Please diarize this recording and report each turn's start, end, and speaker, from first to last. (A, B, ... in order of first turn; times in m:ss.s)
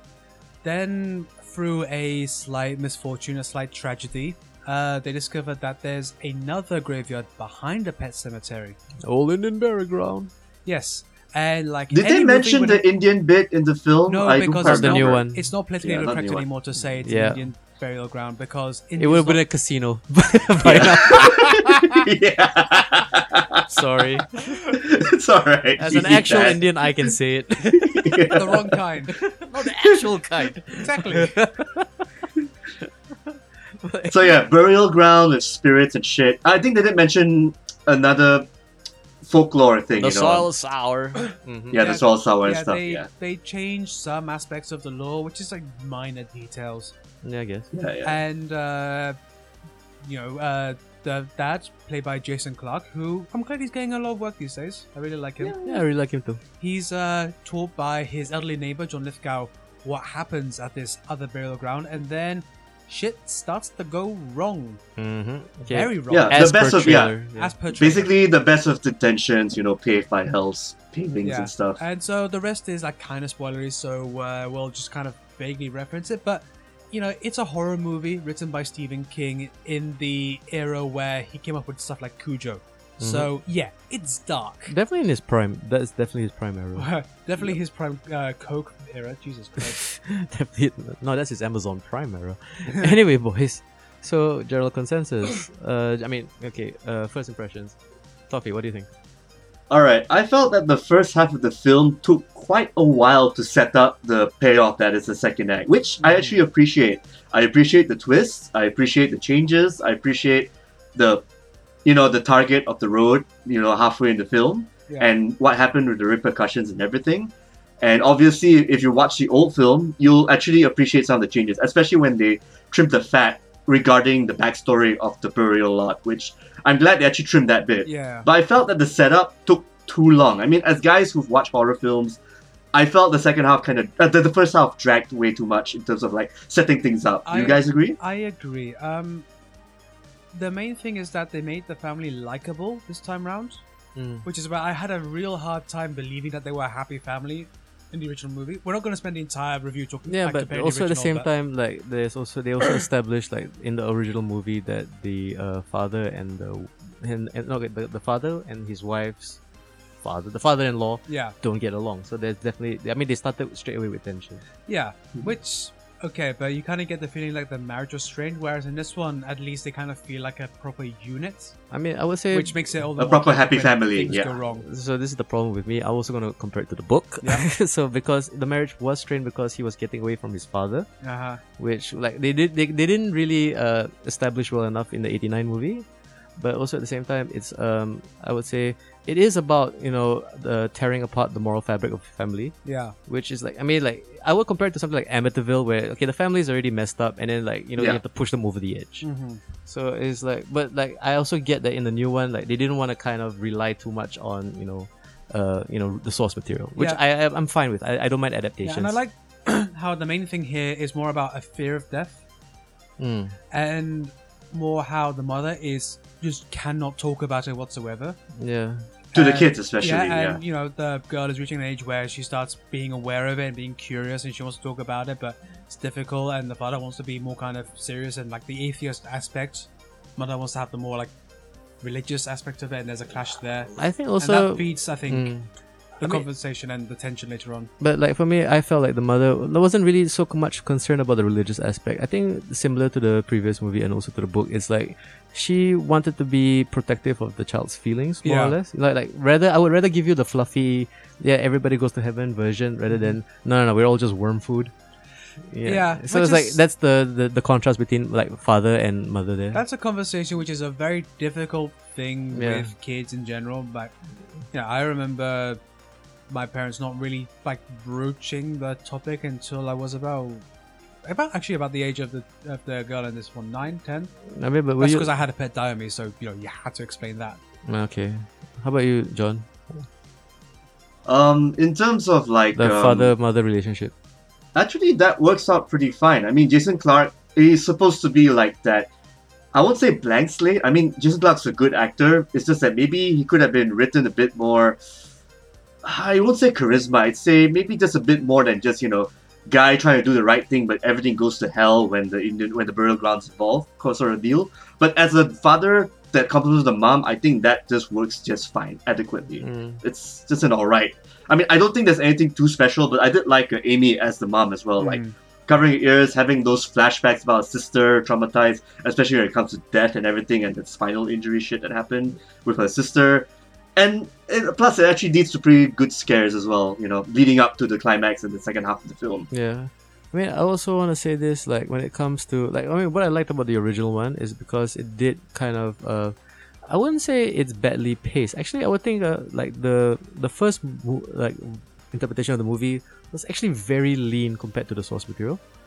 0:00.6-0:08.8 A
0:09.0-0:10.3 B
0:10.7-0:12.9 A
0:11.9-0:15.2 C
0:14.1-0:19.4 A
0:14.6-0:15.5 B
0:15.8-0:16.4 C
0:17.0-0:17.4 B
0:19.0-0:22.0 B
0:20.6-0:23.7 C
0:23.7-0:24.6 B
0:24.7-0:27.1 C
0:25.8-0:28.5 B
0:27.8-0:28.7 C
0:28.3-0:29.2 A
0:29.1-0:32.1 B
0:30.8-0:31.4 A
0:32.8-0:34.4 B
0:34.1-0:38.5 C
0:39.2-0:40.5 C
0:40.0-0:41.8 B
0:41.7-0:43.1 C
0:41.8-0:46.9 A
0:47.2-0:47.7 B
0:47.7-0:48.2 C
0:48.0-0:49.2 A
0:50.0-0:55.6 A
0:55.4-0:55.8 C
0:55.6-0:56.4 B
0:56.6-1:04.8 A
1:05.0-1:07.5 B
1:05.7-1:06.6 A
1:06.1-1:07.2 C
1:07.4-1:08.1 A
1:07.7-1:11.8 C
1:11.2-1:24.7 A
1:23.0-1:23.3 B
1:24.7-1:26.9 B
1:26.8-1:29.8 A
1:29.6-1:37.8 B
1:32.7-1:32.9 A
1:38.3-1:38.9 B
1:39.7-1:51.2 C
1:46.0-1:46.4 A
1:51.8-2:12.2 C
2:07.8-2:08.3 A
2:12.7-2:18.0 C
2:17.3-2:19.3 A
2:20.3-2:23.6 A
2:24.0-2:24.3 B
2:24.2-2:31.3 A
2:30.1-2:39.4 B
2:40.0-2:44.4 B
2:41.1-2:41.4 A
2:44.7-2:51.6 A
2:51.7-2:52.7 B
2:52.3-2:54.7 A
2:53.0-2:54.4 C
2:54.5-3:00.9 B
3:01.0-3:01.4 A
3:01.6-3:05.9 B
3:06.4-3:12.6 B
3:12.7-3:13.0 A
3:13.1-3:19.0 B
3:19.0-3:19.4 A
3:19.7-3:29.0 B
3:28.6-3:32.2 A
3:33.0-3:33.4 B
3:33.5-3:38.2 A
3:38.4-3:38.9 B
3:39.1-3:51.1 A
3:39.1-3:40.4 C
3:51.8-3:55.3 A
3:53.8-3:55.5 B
3:56.0-3:57.7 A
3:57.8-4:14.7 B
4:08.2-4:08.6 A
4:15.5-4:19.6 B
4:15.6-4:16.6 A
4:19.5-4:23.9 A
4:22.3-4:22.7 B
4:24.5-4:25.6 A
4:26.3-4:30.4 A
4:31.0-4:34.1 A
4:34.3-4:35.1 B
4:34.8-4:37.4 A
4:37.7-4:39.8 B
4:41.1-4:43.1 C
4:42.6-4:43.9 B
4:44.6-4:48.9 C
4:49.5-4:54.8 C
4:55.8-5:29.3 C
5:09.4-5:09.8 B
5:14.8-5:15.1 A
5:29.3-5:45.4 B